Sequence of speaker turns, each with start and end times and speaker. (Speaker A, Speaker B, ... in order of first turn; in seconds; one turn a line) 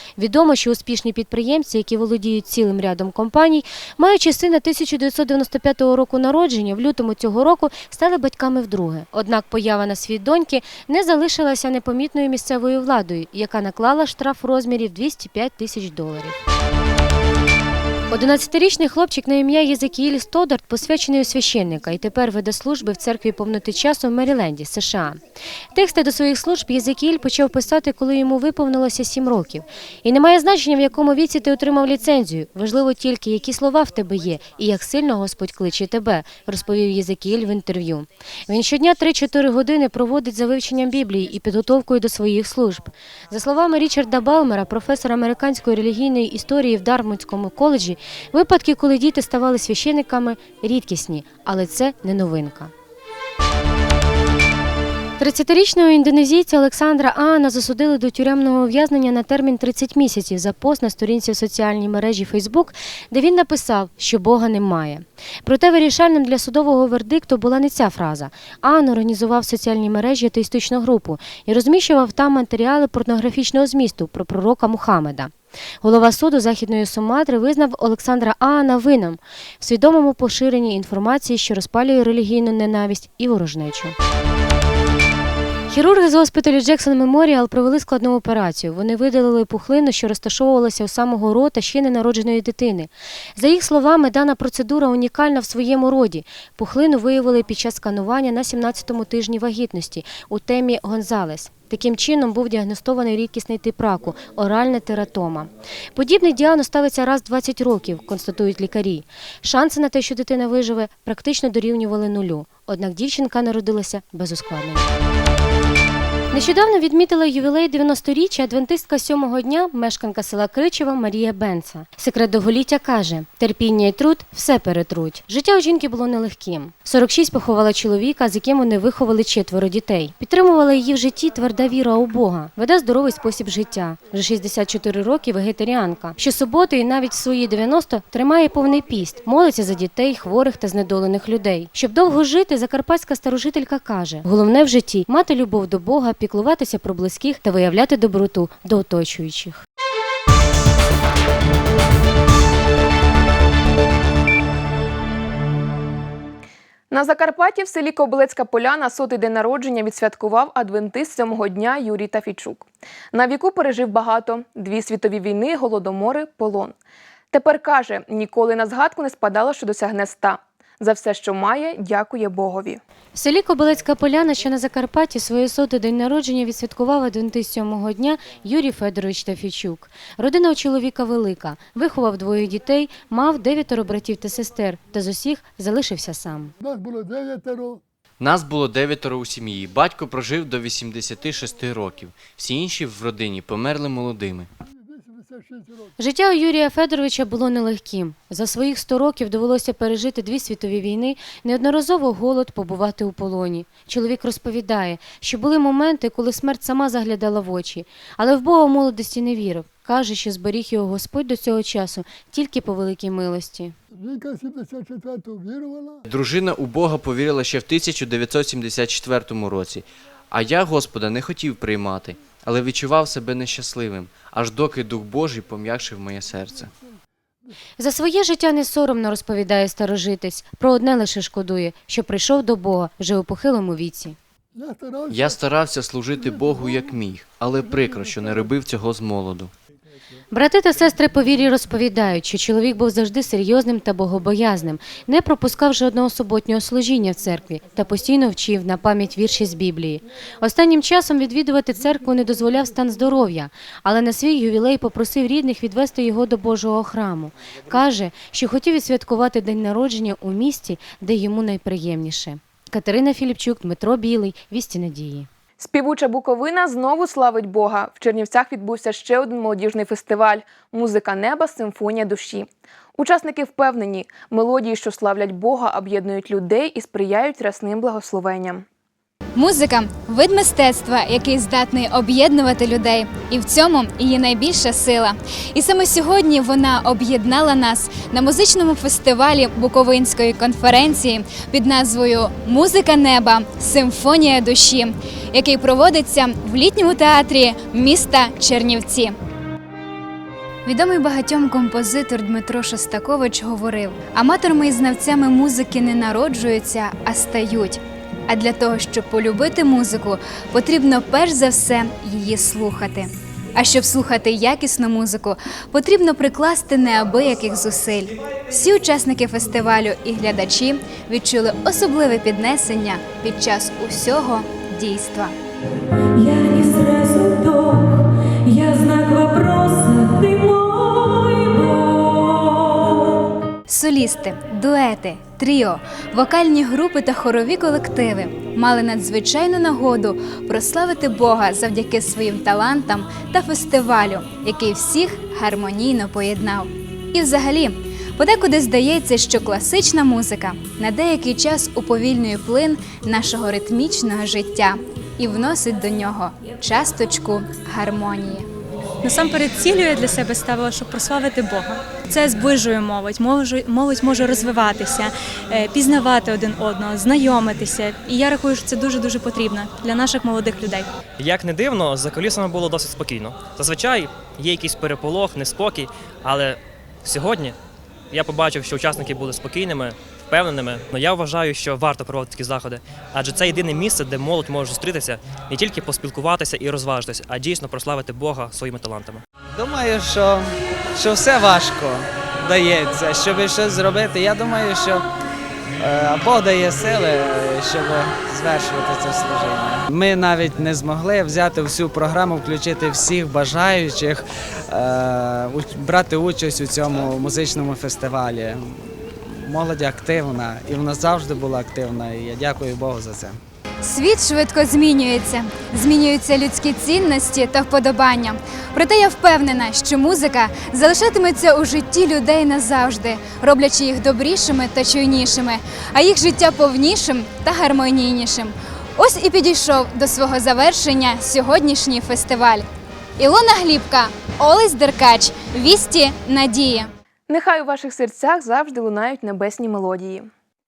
Speaker A: 0.2-16.4
Speaker A: 18.1-25.2
Speaker A: 25.7-52.7
Speaker A: 55.2-83.9
Speaker A: 85.7-114.9
Speaker A: 116.3-149.6
Speaker B: 156.9-166.7
Speaker B: 167.3-172.8
Speaker A: 173.1-186.5
Speaker C: 186.6-187.8
Speaker D: 188.2-194.5
Speaker C: 194.7-195.9
Speaker A: 196.0-213.7
Speaker C: 213.9-216.0
Speaker D: 216.1-226.7
Speaker A: 227.8-234.2
Speaker C: 234.5-235.4
Speaker D: 235.1-239.5
Speaker C: 236.2-236.9
Speaker C: 237.6-238.4
Speaker A: 240.3-265.3
Speaker B: 265.6-278.6
Speaker E: 279.4-299.1
Speaker E: 300.6-325.3
Speaker F: 326.2-327.9
Speaker F: 328.5-331.5
Speaker E: 333.7-358.5
Speaker F: 359.0-370.9
Speaker G: 371.2-377.6
Speaker G: 378.1-389.2
Speaker H: 389.5-395.0
Speaker H: 395.8-413.4
Speaker E: 413.8-432.6
Speaker E: 433.2-436.9
Speaker B: 437.3-440.3